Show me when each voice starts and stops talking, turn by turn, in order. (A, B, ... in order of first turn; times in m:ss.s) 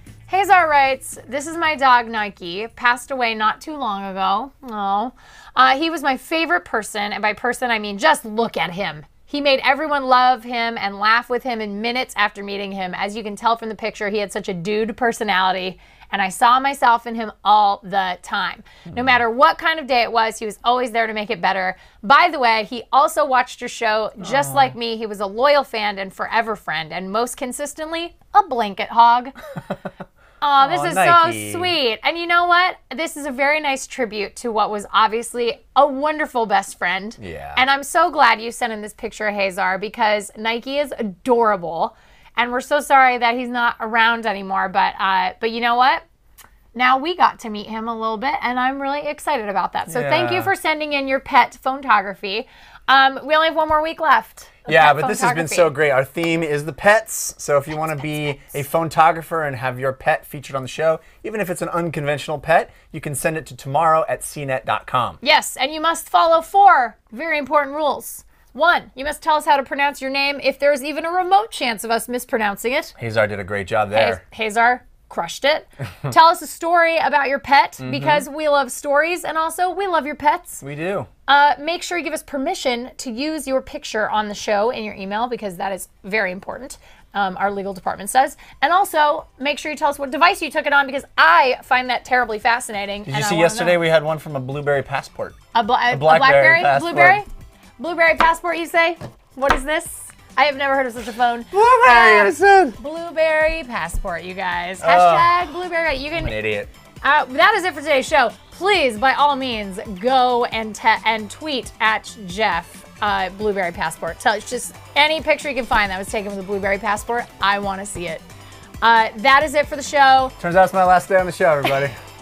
0:00.3-0:29.3 A
0:24.2-0:24.8 B
0:30.4-0:46.0 A
0:30.6-0:31.8 B
0:37.2-0:37.6 B
0:46.8-0:55.7 A
0:49.9-0:50.5 B
0:54.7-1:05.2 B
0:57.7-0:58.6 A
1:05.2-1:13.0 A
1:13.0-1:14.2 B
1:13.9-1:20.6 A
1:17.8-1:18.3 B
1:20.6-1:21.1 B
1:21.3-1:33.8 A
1:33.1-1:35.4 B
1:35.5-1:37.3 A
1:35.9-1:37.2 B
1:37.8-1:46.4 A
1:41.5-1:42.8 B
1:44.8-1:45.5 B
1:46.1-1:46.7 B
1:47.0-1:58.2 A
1:58.8-2:00.4 A
2:00.4-2:02.0 B